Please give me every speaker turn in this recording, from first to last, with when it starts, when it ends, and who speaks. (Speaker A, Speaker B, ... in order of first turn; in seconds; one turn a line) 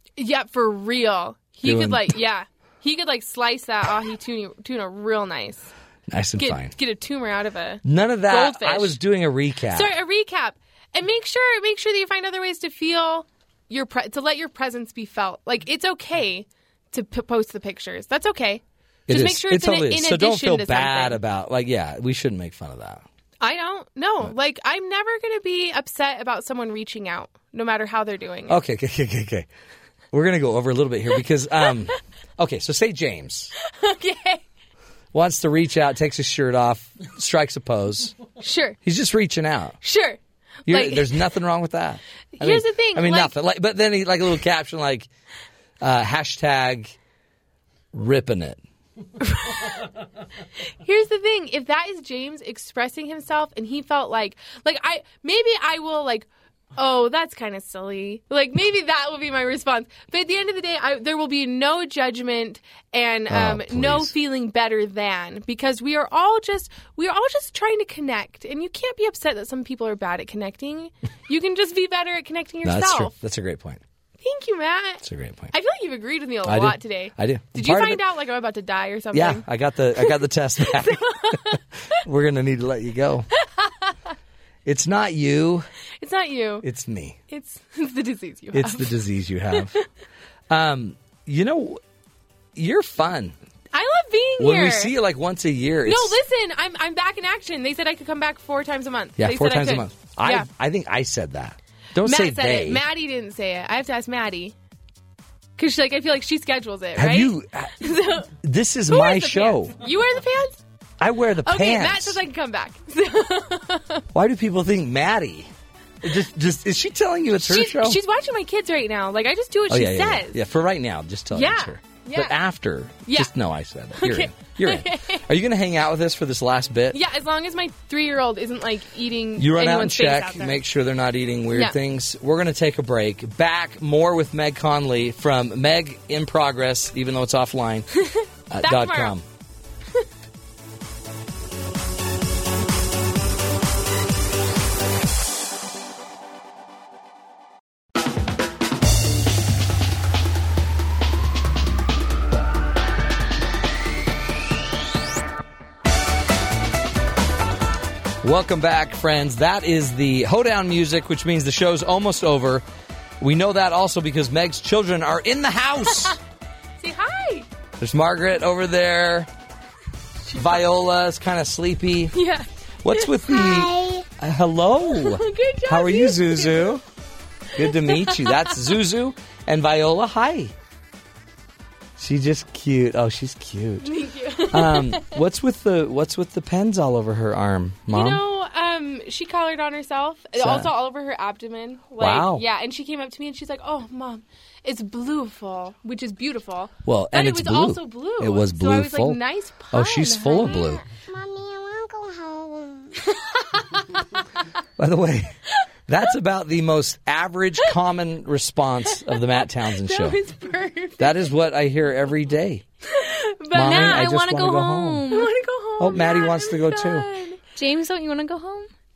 Speaker A: 0.2-5.7
Speaker B: 1.6-2.2
Speaker B: 6.1-6.8
Speaker A: 6.4-9.0
Speaker B: 7.8-9.9
Speaker A: 9.7-21.2
Speaker B: 19.1-23.1
Speaker A: 23.4-28.6
Speaker B: 28.5-29.5
Speaker B: 30.1-33.5
Speaker A: 33.6-34.4
Speaker B: 35.1-38.2
Speaker A: 38.4-38.8
Speaker B: 38.8-39.8
Speaker A: 39.8-41.2
Speaker B: 40.7-45.1
Speaker A: 42.4-43.4
Speaker B: 45.8-47.0
Speaker B: 47.9-48.6
Speaker A: 49.2-49.8
Speaker A: 50.8-73.1
Speaker B: 63.3-64.1
Speaker B: 72.6-73.8
Speaker A: 74.2-79.4
Speaker B: 75.0-75.5
Speaker B: 76.5-78.0
Speaker B: 79.1-83.3
Speaker A: 80.0-81.6
Speaker A: 83.4-83.9
Speaker B: 84.7-85.7
Speaker A: 86.0-86.7
Speaker B: 86.6-87.2
Speaker A: 87.3-89.0
Speaker B: 88.5-89.8
Speaker A: 89.5-89.8
Speaker B: 90.5-91.8
Speaker B: 92.6-93.3
Speaker A: 93.7-94.9
Speaker B: 94.4-96.2
Speaker A: 95.9-100.5
Speaker B: 99.2-102.8
Speaker A: 102.0-104.5
Speaker A: 105.6-108.3
Speaker B: 107.0-109.8
Speaker A: 108.9-110.6
Speaker B: 111.0-112.2
Speaker A: 111.4-114.0
Speaker B: 114.1-115.5
Speaker B: 116.0-118.0
Speaker A: 117.4-120.4
Speaker B: 119.7-127.0
Speaker A: 121.3-122.3
Speaker A: 123.1-123.3
Speaker A: 124.0-125.2
Speaker A: 126.9-130.6
Speaker B: 129.4-137.9
Speaker A: 138.0-139.2
Speaker B: 138.5-139.2
Speaker B: 158.2-162.7
Speaker B: 163.2-166.2
Speaker A: 166.8-167.5
Speaker B: 167.8-169.3
Speaker B: 170.3-172.2
Speaker A: 172.1-174.1
Speaker B: 172.8-176.8
Speaker A: 174.9-176.8
Speaker B: 177.6-180.5
Speaker A: 177.6-178.6
Speaker B: 182.0-183.9
Speaker A: 183.8-185.2
Speaker B: 184.5-188.2
Speaker A: 187.9-204.0
Speaker B: 190.4-190.7
Speaker B: 192.0-192.4
Speaker B: 196.8-200.8
Speaker B: 204.8-205.3
Speaker B: 205.9-210.2
Speaker A: 209.0-211.3
Speaker B: 211.0-212.7
Speaker A: 212.8-214.1
Speaker B: 213.5-215.1
Speaker C: 213.6-215.3
Speaker A: 215.1-217.4
Speaker B: 215.8-217.1
Speaker C: 217.6-218.7